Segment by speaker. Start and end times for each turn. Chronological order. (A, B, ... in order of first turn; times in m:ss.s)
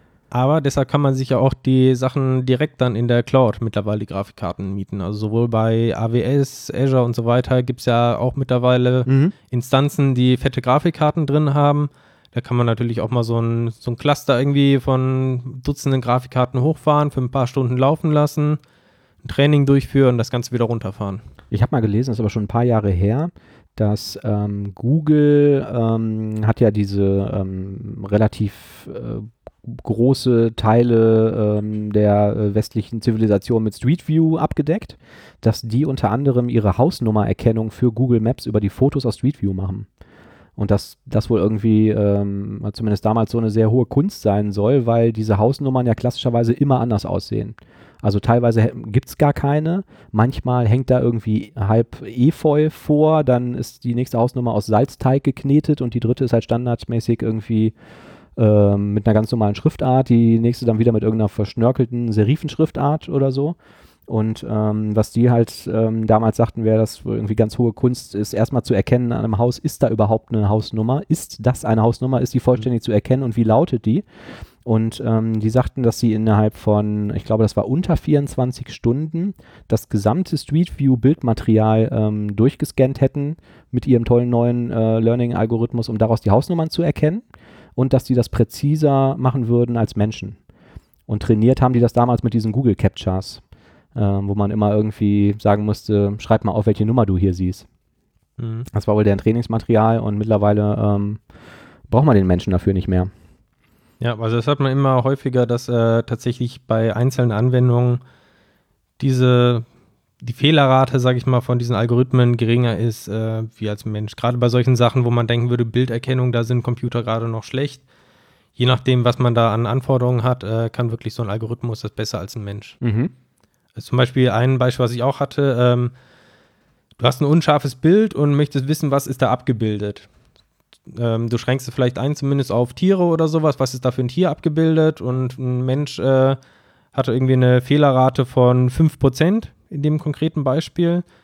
0:00.3-0:18.6 A
0:09.1-0:09.3 B
0:19.2-0:21.2 A
0:21.5-0:39.9 B
0:40.6-0:57.7 B
0:58.4-1:03.6 B
1:04.1-1:14.0 B
1:14.6-1:30.4 B
1:31.1-1:33.4 B
1:33.9-1:37.6 B
1:38.4-1:38.7 A
1:38.7-1:41.2 B
1:41.9-1:43.1 B
1:44.0-1:48.0 A
1:49.0-1:49.6 A
1:50.2-1:57.8 A
1:58.6-2:02.8 A
2:02.8-2:03.1 B
2:03.8-2:05.9 A
2:07.0-2:10.1 A
2:10.9-2:16.4 A
2:16.9-2:21.0 A